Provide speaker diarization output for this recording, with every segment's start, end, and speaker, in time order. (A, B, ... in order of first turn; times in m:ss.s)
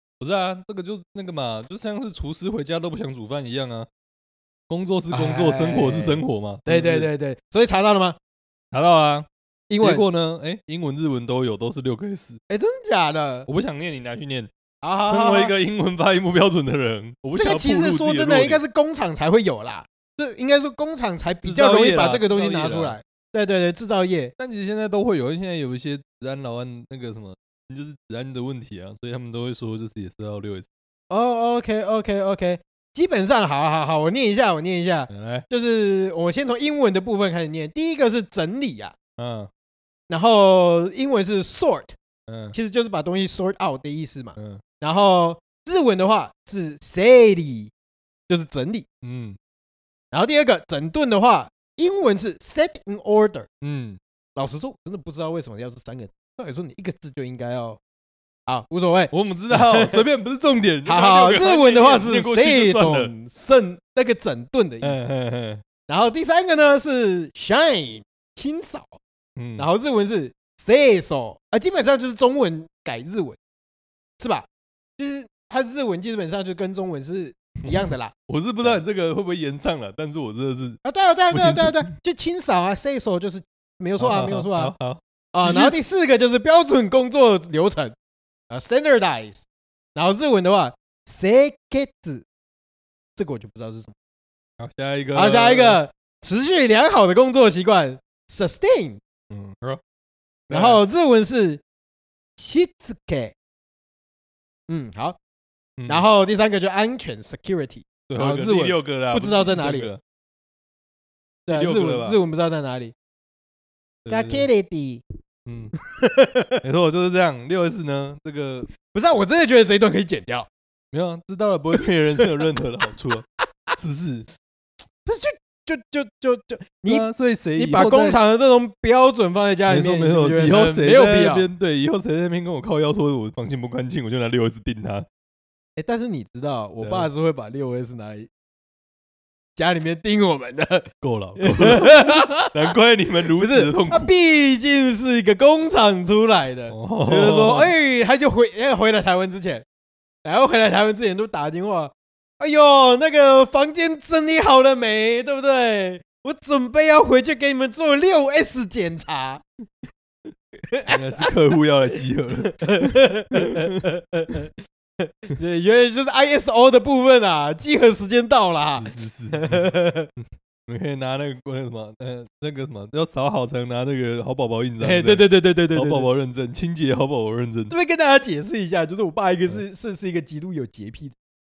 0:00.2-0:03.9 A
0:04.7-0:07.1 A
0:05.1-0:08.2 B
0:08.7-0:09.3 A
0:09.7-0:10.0 B
0:09.8-0:12.4 A
0:12.5-0:13.5 B
0:13.5-0:14.5 A
0:14.8-0:15.6 B
0:15.1-0:18.6 A
0:17.4-0:24.3 B
0:21.4-0:23.0 A
0:24.4-0:30.7 A
0:31.1-0:39.0 B
0:35.1-0:35.4 A
0:39.2-0:39.5 A
0:40.1-0:42.0 B
0:42.3-0:42.6 A
0:42.5-0:47.7 B
0:44.4-0:44.6 A
0:48.3-0:48.9 B
0:49.0-0:49.4 A
0:50.1-0:53.5 B
0:53.6-0:54.0 A
0:54.4-0:57.8 B
0:58.5-1:00.0 B
0:59.1-1:03.1 A
1:00.8-1:05.1 B
1:04.8-1:05.6 A
1:05.9-1:09.0 B
1:09.4-1:09.7 A
1:09.6-1:13.4 B
1:14.2-1:14.5 B
1:15.0-1:18.8 B
1:17.7-1:21.9 A
1:20.8-1:24.7 B
1:24.0-1:25.8 A
1:25.3-1:28.0 B
1:28.5-1:32.3 B
1:33.2-1:34.0 B
1:34.6-1:35.8 A
1:35.1-1:39.0 B
1:39.3-1:39.8 A
1:40.5-1:40.8 A
1:40.5-1:41.6 B
1:42.4-1:43.3 B
1:44.7-1:45.2 B
1:45.8-1:46.0 A
1:45.9-1:49.9 B
1:48.1-1:50.0 A
1:51.5-1:52.9 B
1:51.5-1:52.2 A
1:54.0-1:54.5 A
1:54.1-1:55.0 B
1:55.5-1:55.7 A
1:55.8-1:56.6 B
1:56.6-1:58.7 A
1:58.9-2:00.5 B
2:00.9-2:03.3 A
2:03.8-2:04.3 A
2:05.0-2:11.5 B
2:06.9-2:08.2 A
2:09.7-2:15.1 A
2:15.8-2:18.3 B
2:16.8-2:17.1 A
2:19.6-2:20.9 B
2:21.0-2:24.1 A
2:21.4-2:22.8 B
2:23.3-2:29.6 B
2:26.7-2:27.7 A
2:30.2-2:39.4 B
2:40.6-2:41.3 B
2:40.9-2:43.8 A
2:42.6-2:44.5 B
2:45.0-2:50.1 B
2:48.8-2:49.7 A
2:50.2-2:57.7 A
2:54.8-2:56.1 B
2:57.7-3:01.2 B